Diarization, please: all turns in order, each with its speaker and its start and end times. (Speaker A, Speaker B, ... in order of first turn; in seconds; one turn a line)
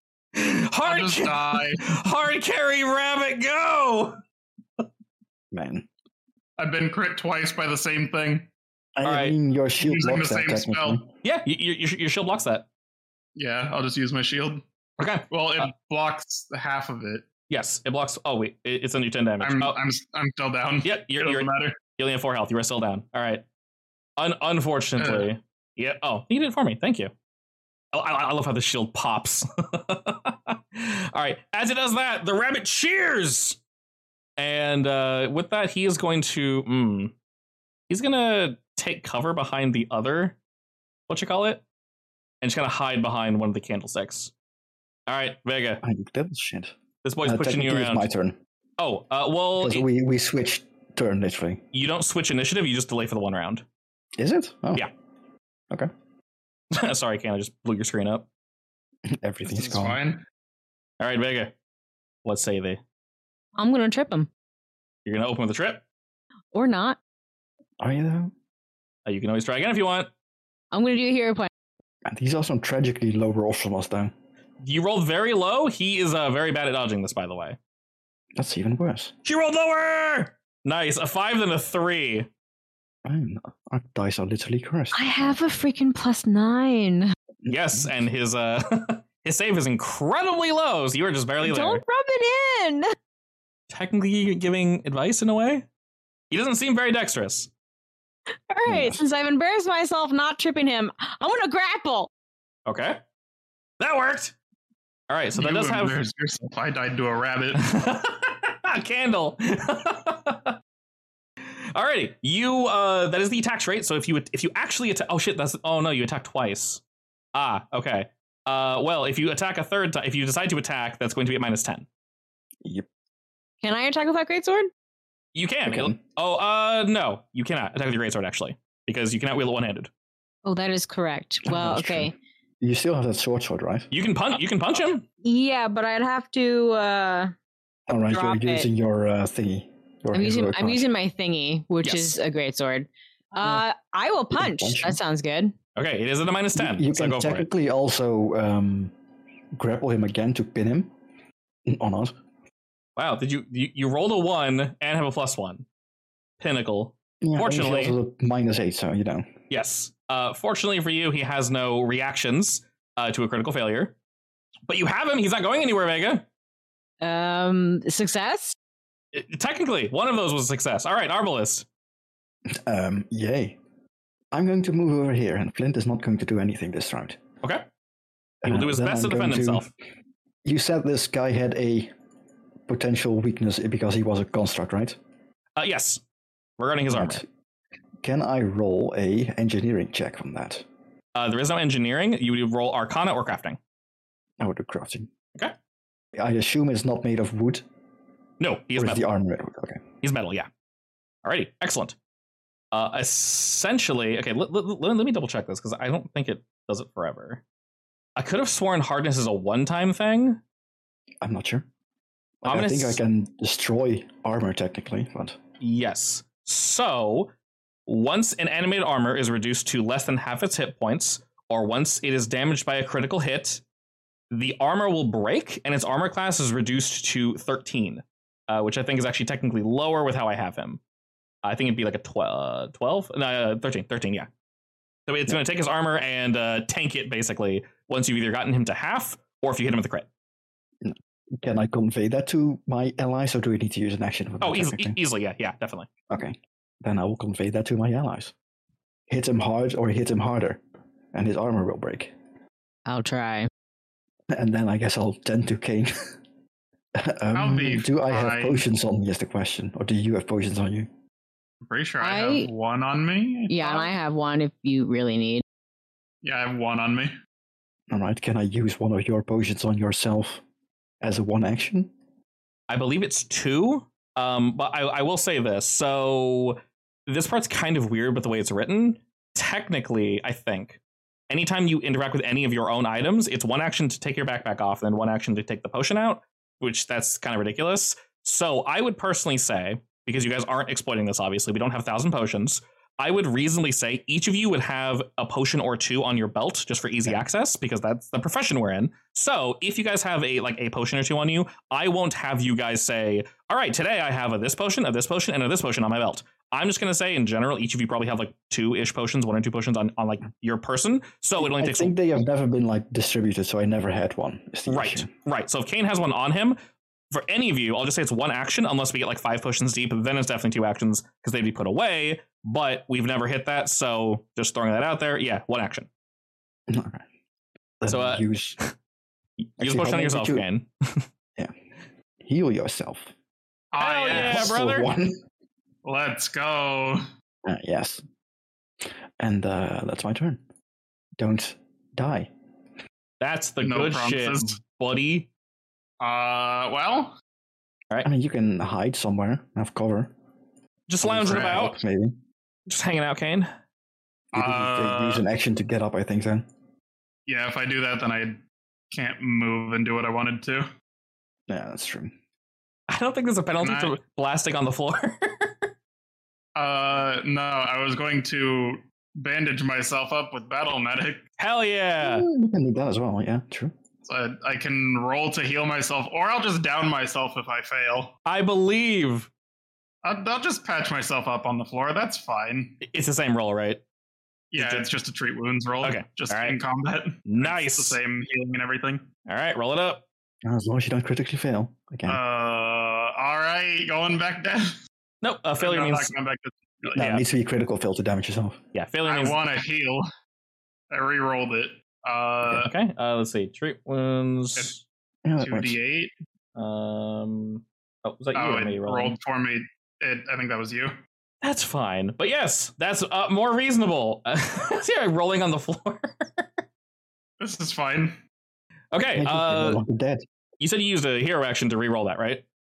Speaker A: 0.3-4.2
Speaker B: 0.8-1.9
Speaker C: 5.5-5.9
Speaker B: 6.6-8.5
Speaker C: 9.0-11.1
Speaker A: 9.0-9.4
Speaker B: 9.8-11.0
Speaker A: 11.2-12.7
Speaker B: 13.3-14.6
Speaker A: 15.0-15.7
Speaker B: 15.3-17.3
Speaker A: 17.5-19.8
Speaker B: 19.4-21.8
Speaker A: 20.8-23.4
Speaker A: 24.2-27.1
Speaker B: 25.0-25.3
Speaker A: 27.9-33.6
Speaker A: 34.4-37.1
Speaker A: 37.9-40.4
Speaker A: 41.1-41.6
Speaker A: 42.4-44.3
Speaker A: 45.1-45.8
Speaker C: 45.8-48.4
Speaker A: 47.0-48.1
Speaker A: 48.8-49.9
Speaker C: 49.6-51.6
Speaker A: 51.7-53.6
Speaker C: 54.2-54.9
Speaker A: 56.7-58.3
Speaker C: 59.1-60.0
Speaker B: 59.5-60.2
Speaker A: 61.0-61.5
Speaker A: 62.2-62.8
Speaker D: 63.6-64.3
Speaker A: 65.0-65.8
Speaker D: 66.5-67.0
Speaker C: 67.8-68.3
Speaker A: 69.0-70.1
Speaker D: 70.7-71.5
Speaker C: 72.0-74.1
Speaker A: 74.6-77.6
Speaker C: 78.4-79.1
Speaker A: 79.2-82.3
Speaker C: 83.0-85.4
Speaker D: 84.9-87.1
Speaker C: 87.5-88.0
Speaker A: 87.5-91.8
Speaker D: 91.4-92.9
Speaker A: 93.7-95.7
Speaker A: 96.3-97.5
Speaker D: 98.5-102.1
Speaker C: 98.7-99.0
Speaker A: 102.7-103.0
Speaker A: 103.8-104.3
Speaker A: 105.1-106.0
Speaker B: 105.3-107.6
Speaker A: 107.5-110.6
Speaker A: 111.6-116.8
Speaker A: 117.3-121.9
Speaker D: 123.6-124.7
Speaker A: 125.3-129.9
Speaker C: 125.7-126.0
Speaker D: 130.4-132.1
Speaker C: 131.4-133.9
Speaker A: 133.9-135.1
Speaker D: 135.2-137.3
Speaker C: 137.9-140.9
Speaker D: 138.1-138.7
Speaker D: 140.1-145.5
Speaker A: 141.8-142.2
Speaker C: 144.3-145.0
Speaker A: 145.8-147.5
Speaker C: 146.6-148.9
Speaker C: 149.6-150.9
Speaker C: 151.7-152.2
Speaker A: 153.0-155.7
Speaker A: 156.4-158.0
Speaker C: 157.2-159.3
Speaker A: 159.5-164.0
Speaker A: 164.7-166.2
Speaker D: 167.0-168.6
Speaker A: 169.1-171.7
Speaker C: 172.5-173.6
Speaker C: 174.3-177.2
Speaker C: 178.4-179.7
Speaker A: 178.4-179.7
Speaker C: 180.4-181.9
Speaker C: 182.7-185.0
Speaker A: 185.6-186.0
Speaker A: 186.6-187.2
Speaker C: 186.9-187.2
Speaker C: 188.0-190.7
Speaker A: 191.2-193.6
Speaker C: 194.4-195.1
Speaker C: 196.2-197.7
Speaker A: 198.4-199.1
Speaker C: 198.8-199.8
Speaker A: 200.0-200.5
Speaker A: 201.2-202.0
Speaker A: 202.7-207.4
Speaker A: 208.2-210.4
Speaker C: 211.2-211.7
Speaker C: 212.4-215.4
Speaker A: 212.4-213.0
Speaker A: 215.6-217.3
Speaker A: 217.9-223.6
Speaker A: 224.3-230.8
Speaker A: 231.4-234.3
Speaker A: 235.1-240.1
Speaker C: 240.8-245.0
Speaker A: 244.4-245.9
Speaker C: 246.1-248.3
Speaker C: 249.1-250.6
Speaker C: 251.1-252.1
Speaker D: 252.9-253.5
Speaker C: 254.3-256.2
Speaker C: 256.9-260.9
Speaker B: 257.3-258.6
Speaker B: 261.6-263.9
Speaker D: 262.0-262.5
Speaker D: 263.5-265.4
Speaker B: 266.2-267.1
Speaker C: 267.9-270.4
Speaker C: 271.0-271.9
Speaker A: 272.7-311.9
Speaker C: 311.4-315.1
Speaker A: 314.7-316.6
Speaker A: 317.1-325.9
Speaker C: 326.7-327.0
Speaker C: 327.8-328.6
Speaker A: 327.9-328.7
Speaker A: 329.4-331.1
Speaker C: 329.6-330.4
Speaker C: 332.2-333.1
Speaker B: 333.7-334.6
Speaker A: 333.8-334.9
Speaker C: 334.1-335.2
Speaker B: 335.9-337.0
Speaker C: 337.4-338.0
Speaker C: 339.2-340.4
Speaker C: 341.2-342.3
Speaker A: 343.2-345.3
Speaker B: 343.6-344.6
Speaker B: 346.0-347.2
Speaker C: 348.0-350.1
Speaker A: 350.9-351.8
Speaker C: 351.0-352.2
Speaker B: 351.2-351.6
Speaker A: 352.7-353.5
Speaker B: 354.3-355.2
Speaker C: 354.3-356.4
Speaker B: 357.3-360.7
Speaker C: 361.5-362.1
Speaker A: 362.9-365.7
Speaker B: 363.6-364.0
Speaker B: 366.6-371.2
Speaker A: 371.4-372.3
Speaker C: 372.0-373.7
Speaker B: 374.1-378.1
Speaker A: 378.2-379.3
Speaker B: 380.0-382.8
Speaker A: 382.8-383.8
Speaker B: 384.5-389.1
Speaker A: 384.6-384.9
Speaker A: 385.8-386.6
Speaker A: 387.3-388.0
Speaker A: 389.3-390.1
Speaker C: 390.4-392.2
Speaker B: 392.1-394.8
Speaker A: 395.2-396.1
Speaker B: 395.6-397.0
Speaker C: 396.9-398.6
Speaker A: 397.0-397.2
Speaker A: 398.7-399.4
Speaker B: 399.1-400.1
Speaker B: 400.9-402.7
Speaker A: 402.6-404.8
Speaker C: 405.2-405.8
Speaker B: 405.4-406.1
Speaker A: 406.6-409.2
Speaker B: 408.3-410.9
Speaker A: 411.4-416.6
Speaker B: 417.4-418.2
Speaker A: 418.9-419.8
Speaker C: 419.2-420.2
Speaker A: 420.6-422.4